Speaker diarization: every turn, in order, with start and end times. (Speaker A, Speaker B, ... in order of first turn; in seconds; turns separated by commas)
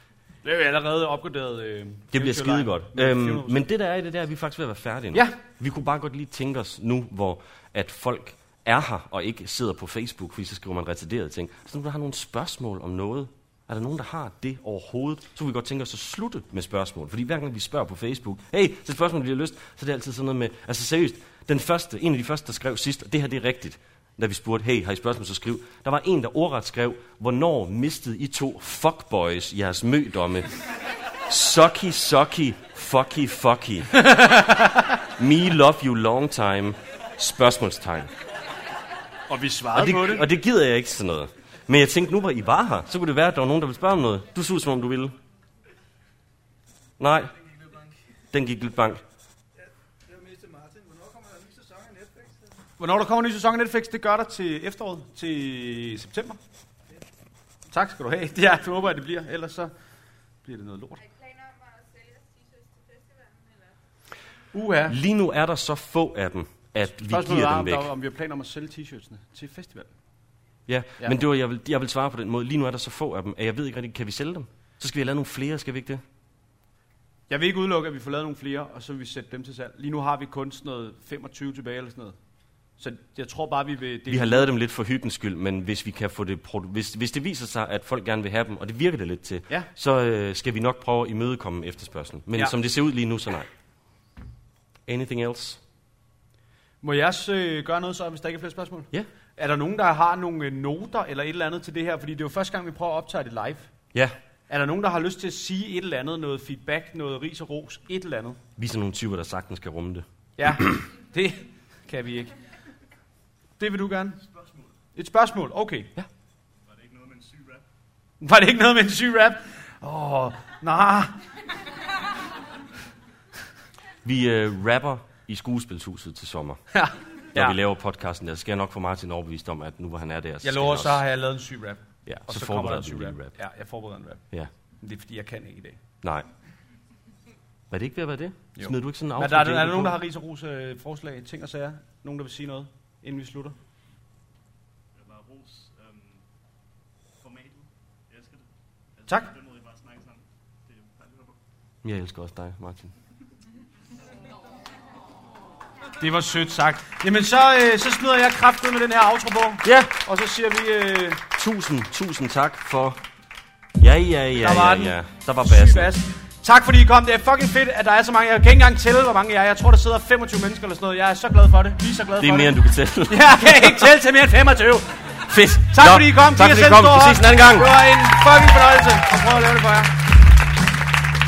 Speaker A: 0.4-3.7, Speaker B: 2.1-30.5, Speaker B: 31.3-34.0, Speaker A: 33.9-35.0, Speaker B: 35.2-38.1, Speaker A: 39.3-40.3, Speaker B: 39.7-45.1, Speaker B: 47.0-47.5, Speaker B: 48.3-49.0, Speaker A: 52.8-56.4, Speaker A: 57.7-59.7, Speaker A: 60.4-61.0, Speaker C: 61.0-63.8, Speaker A: 64.5-65.0, Speaker B: 64.9-67.9, Speaker A: 67.1-69.9, Speaker B: 70.7-76.0, Speaker A: 77.3-82.2, Speaker A: 82.8-84.5, Speaker B: 84.1-93.5, Speaker B: 94.9-95.6, Speaker A: 96.8-103.7, Speaker A: 104.5-108.4, Speaker B: 108.6-110.0, Speaker A: 110.4-112.3, Speaker A: 113.6-114.2, Speaker D: 114.2-114.7, Speaker A: 115.0-115.9, Speaker D: 116.6-117.7, Speaker A: 118.2-121.2, Speaker B: 124.0-126.6, Speaker A: 126.7-127.6, Speaker B: 127.3-131.0, Speaker A: 130.4-134.2, Speaker B: 132.1-133.4, Speaker A: 134.8-135.8, Speaker B: 136.0-136.3, Speaker B: 137.7-140.0, Speaker A: 138.6-143.6, Speaker D: 144.9-146.2, Speaker D: 147.2-151.4, Speaker B: 151.8-152.9, Speaker A: 156.0-161.2, Speaker B: 159.6-160.0, Speaker B: 161.3-163.0, Speaker B: 163.8-165.9, Speaker A: 164.4-180.0, Speaker B: 172.2-173.9, Speaker B: 175.3-177.7